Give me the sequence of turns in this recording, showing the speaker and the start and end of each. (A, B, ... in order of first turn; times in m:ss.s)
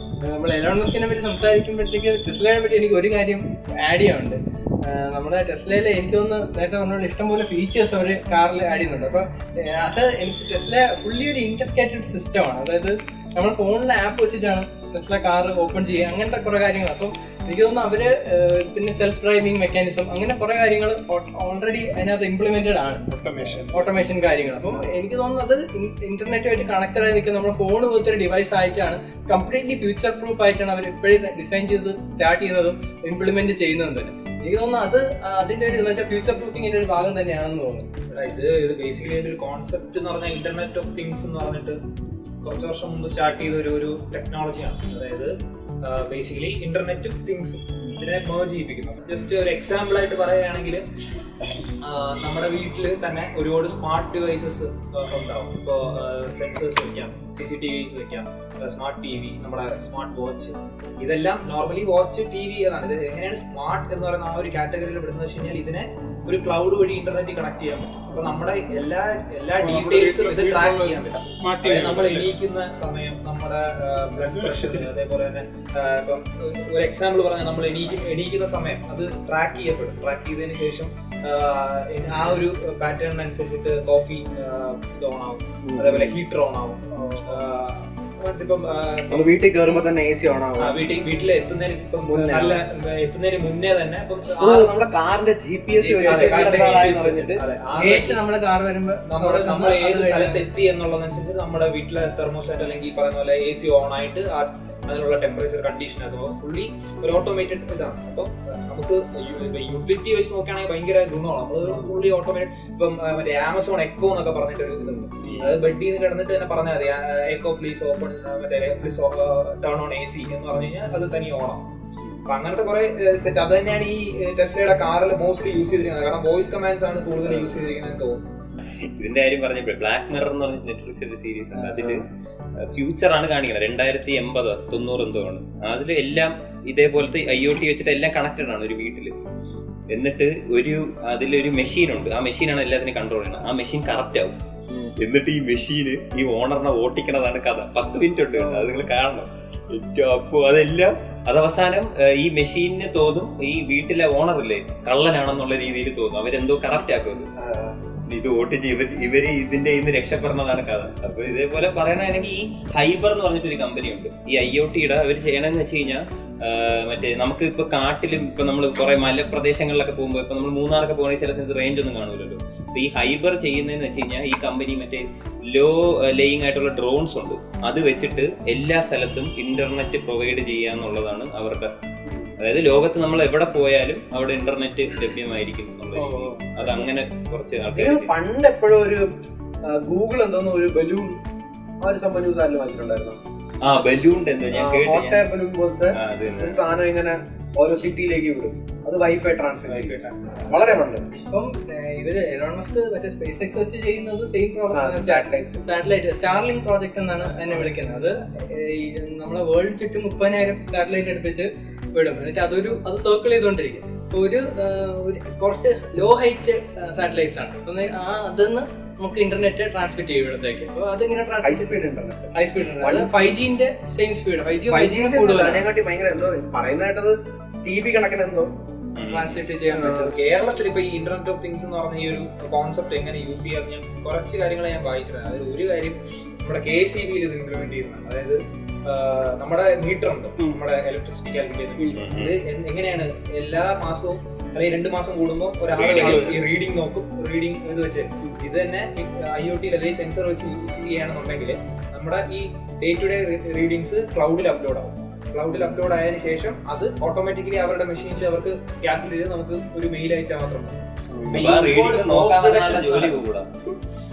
0:00.2-0:23.0 A
0:23.1-0:24.0 B
0:23.7-0:37.9 A
0:38.1-0:41.8 C
0:42.4-0:50.9 C
0:51.8-1:29.3 C
1:09.6-1:12.3 B
1:14.3-1:14.9 B
1:25.6-1:26.2 D
1:29.1-1:30.8 D
1:30.6-1:34.7 C
1:32.1-1:32.6 D
1:34.4-1:37.4 D
1:35.8-1:38.2 C
1:36.0-1:36.9 A
1:37.8-1:40.4 A
1:39.1-2:01.7 C
1:55.2-1:55.5 D
2:02.3-2:08.2 C
2:08.8-2:12.0 E
2:12.6-2:19.1 E
2:19.9-2:24.4 E
2:25.0-2:37.3 E
2:28.4-2:28.8 D
2:37.4-2:37.8 D
2:38.1-3:01.7 E
3:02.1-3:02.3 D
3:02.4-3:08.1 E
3:06.0-3:06.6 B
3:07.7-3:09.1 D
3:09.6-3:11.2 D
3:11.8-3:13.2 D
3:13.6-3:15.2 E
3:14.5-3:21.1 D
3:16.0-3:16.6 E
3:19.7-3:20.4 B
3:21.3-3:41.7 A
3:24.7-3:25.7 D
3:41.4-3:43.4 D
3:42.4-3:45.6 A
3:44.7-3:48.5 D
3:49.0-3:49.4 E
3:49.1-3:50.2 A
3:49.7-3:50.1 D
3:50.0-4:20.8 C
4:01.9-4:02.4 E
4:05.8-4:06.4 E
4:06.0-4:06.4 B
4:21.2-4:21.5 D
4:21.3-4:23.2 C
4:21.3-4:23.5 E